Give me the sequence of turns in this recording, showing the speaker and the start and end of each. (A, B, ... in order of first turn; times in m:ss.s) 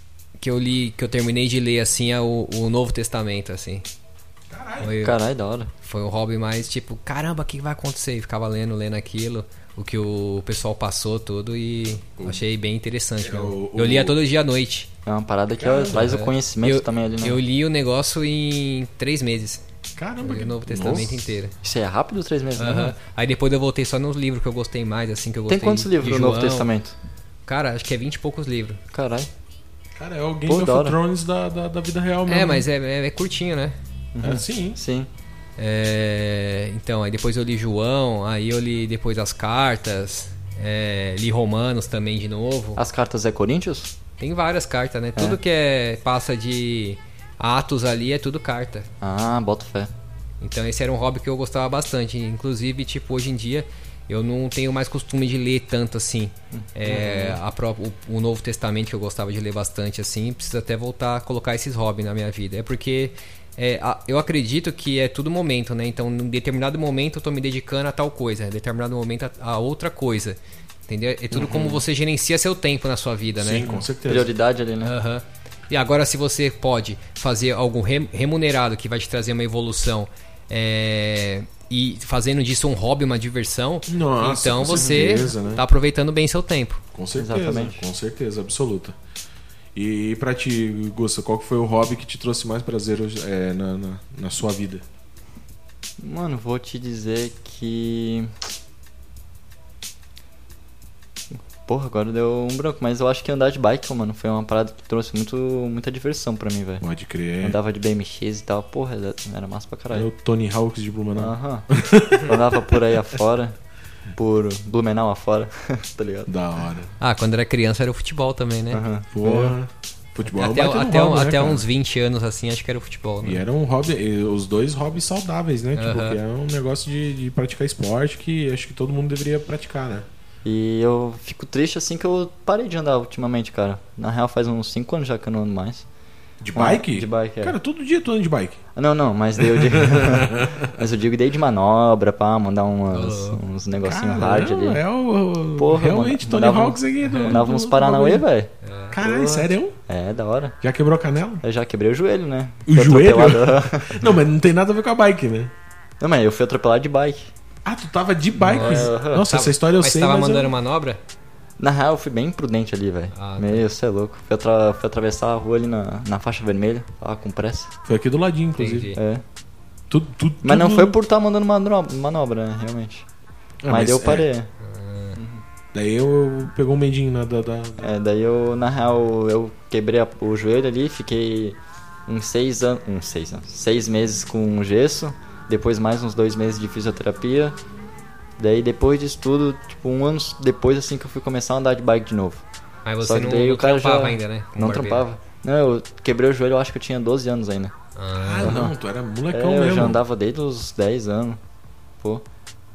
0:00.4-0:03.8 A
0:04.5-0:05.0 B
0:04.8-0:05.2 A
0:05.0-0:05.7 C
0:05.8-0:14.9 A
0:13.2-0:14.2 B
0:15.1-0:17.4 C
0:15.6-0:16.2 B
0:15.9-0:19.6 A
0:20.0-0:21.4 B
0:20.2-0:21.6 A
0:21.6-0:23.0 C
0:22.6-0:26.7 A
0:25.5-0:27.0 C
0:27.5-0:28.8 A
0:28.9-0:29.3 C
0:30.0-0:32.7 B
0:30.5-0:31.0 C
0:32.3-0:33.8 A
0:34.2-0:35.1 C
0:34.2-0:34.8 B
0:35.6-0:42.8 A
0:42.8-0:43.9 C
0:44.2-0:48.9 A
0:49.0-0:49.9 C
0:50.4-1:10.4 A
0:56.5-0:57.4 C
1:10.9-1:13.8 A
1:11.3-1:11.9 B
1:13.4-1:14.3 B
1:14.1-1:14.9 C
1:14.8-1:26.8 A
1:23.9-1:25.6 B
1:26.9-1:29.0 B
1:27.2-1:27.8 C
1:29.8-1:34.8 B
1:36.0-1:38.3 C
1:41.6-1:46.8 C
1:46.8-1:47.6 B
1:47.4-1:50.1 C
1:49.9-1:53.0 B
1:51.2-1:53.6 C
1:54.2-1:56.3 C
1:56.3-1:56.9 B
1:57.0-1:58.8 A
1:58.7-1:59.5 C
1:59.1-2:01.6 B
2:00.3-2:03.4 A
2:03.2-2:10.1 B
2:05.8-2:06.2 A
2:10.4-2:15.9 C
2:16.4-2:18.6 B
2:16.6-2:17.6 C
2:18.8-2:24.8 C
2:19.4-2:20.7 B
2:22.9-2:23.4 A
2:23.8-2:28.3 B
2:25.6-2:30.6 C
2:27.0-2:27.4 A
2:28.6-2:29.0 A
2:28.9-2:29.8 B
2:30.6-2:31.4 B
2:31.4-2:34.0 C
2:32.7-2:35.5 B
2:36.0-2:37.3 C
2:37.6-2:40.5 B
2:38.4-2:39.3 C
2:38.4-2:41.0 A
2:41.6-2:47.7 C
2:43.1-2:43.7 A
2:47.8-2:48.9 B
2:48.6-2:49.0 A
2:49.0-2:49.2 C
2:49.9-2:51.0 B
2:50.4-2:53.1 C
2:53.6-2:54.3 B
2:53.7-2:54.5 C
2:54.6-2:55.2 A
2:55.2-2:55.4 C
2:55.7-2:57.9 B
2:57.8-3:07.6 C
3:08.4-3:12.4 C
3:12.8-3:15.1 A
3:13.0-3:17.7 C
3:18.0-3:18.6 A
3:18.2-3:20.0 B
3:18.4-3:18.7 C
3:19.3-3:21.4 C